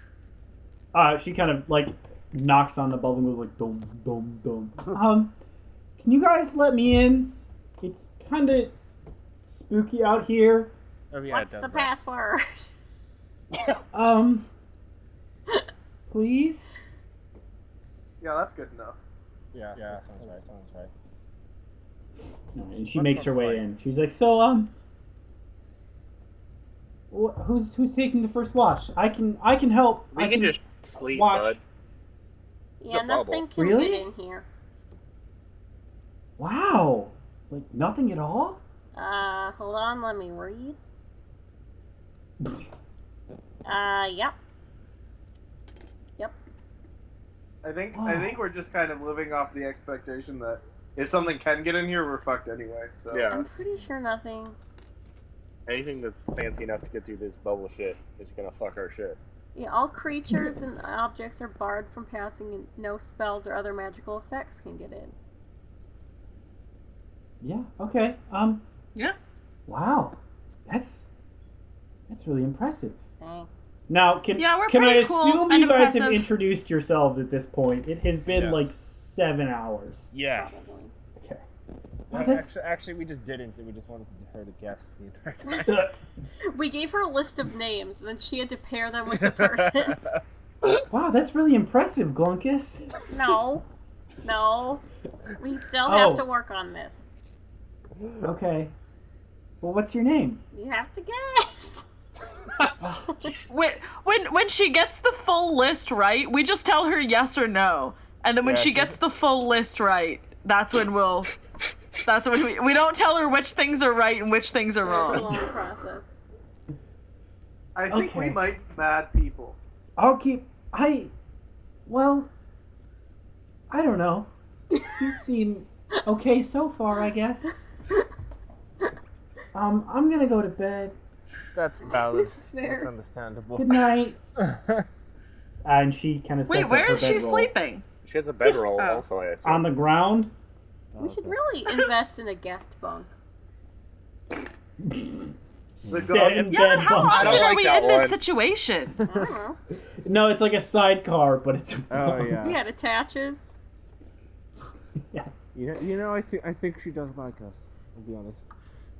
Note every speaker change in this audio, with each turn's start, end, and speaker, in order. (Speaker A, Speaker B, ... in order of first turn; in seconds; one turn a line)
Speaker A: 0.9-5.3
Speaker A: 6.0-8.7
Speaker A: 9.4-10.7
Speaker B: 11.1-12.0
Speaker C: 11.3-12.7
Speaker D: 13.5-13.8
Speaker A: 13.9-14.5
Speaker A: 16.1-16.7
Speaker E: 18.2-19.0
Speaker B: 19.5-20.9
Speaker A: 22.5-24.7
Speaker B: 22.9-23.6
Speaker A: 27.1-31.6
Speaker D: 30.1-31.6
Speaker C: 32.8-34.4
Speaker D: 32.9-33.4
Speaker A: 33.5-34.1
Speaker A: 36.4-38.6
Speaker C: 38.9-40.8
Speaker A: 42.4-42.7
Speaker C: 43.6-44.3
Speaker E: 47.6-53.3
Speaker A: 47.9-48.4
Speaker D: 53.1-53.4
Speaker C: 53.3-54.6
Speaker D: 55.7-59.2
Speaker C: 59.5-65.1
Speaker A: 67.4-68.6
Speaker A: 69.7-71.0
Speaker A: 72.1-73.0
Speaker C: 73.2-73.6
Speaker A: 73.9-80.1
Speaker F: 74.4-76.3
Speaker B: 78.3-78.7
Speaker B: 80.1-80.8
Speaker C: 80.3-80.9
Speaker A: 81.2-81.4
Speaker B: 82.1-85.8
Speaker A: 82.1-82.5
Speaker A: 85.6-85.9
Speaker C: 86.4-90.0
Speaker B: 89.1-90.2
Speaker A: 90.9-92.8
Speaker C: 93.1-93.6
Speaker C: 94.2-94.8
Speaker C: 95.4-97.0
Speaker A: 95.8-96.2
Speaker A: 98.2-98.7
Speaker A: 99.6-100.4
Speaker C: 100.5-101.8
Speaker A: 102.8-103.2
Speaker C: 103.1-103.4
Speaker F: 103.5-111.3
Speaker B: 108.4-109.0
Speaker F: 112.0-115.3
Speaker C: 114.8-116.1
Speaker E: 117.7-119.6
Speaker A: 117.9-118.4
Speaker A: 120.0-121.1
Speaker A: 121.8-122.3
Speaker A: 123.7-127.5
Speaker A: 129.5-130.9
Speaker B: 131.5-133.8
Speaker C: 132.1-132.9
Speaker A: 133.6-134.2
Speaker B: 134.4-134.9
Speaker A: 135.6-137.5
Speaker F: 136.5-137.8
Speaker D: 138.0-139.7
Speaker F: 138.4-139.0
Speaker A: 139.4-140.3
Speaker B: 140.9-141.4
Speaker C: 141.0-143.1
Speaker A: 144.8-147.5
Speaker B: 145.9-146.3
Speaker E: 145.9-146.6
Speaker F: 146.4-149.0
Speaker D: 147.0-148.2
Speaker B: 149.1-149.3
Speaker C: 149.1-149.6
Speaker A: 150.0-152.4
Speaker B: 151.9-152.6
Speaker C: 152.4-153.5
Speaker B: 155.5-158.5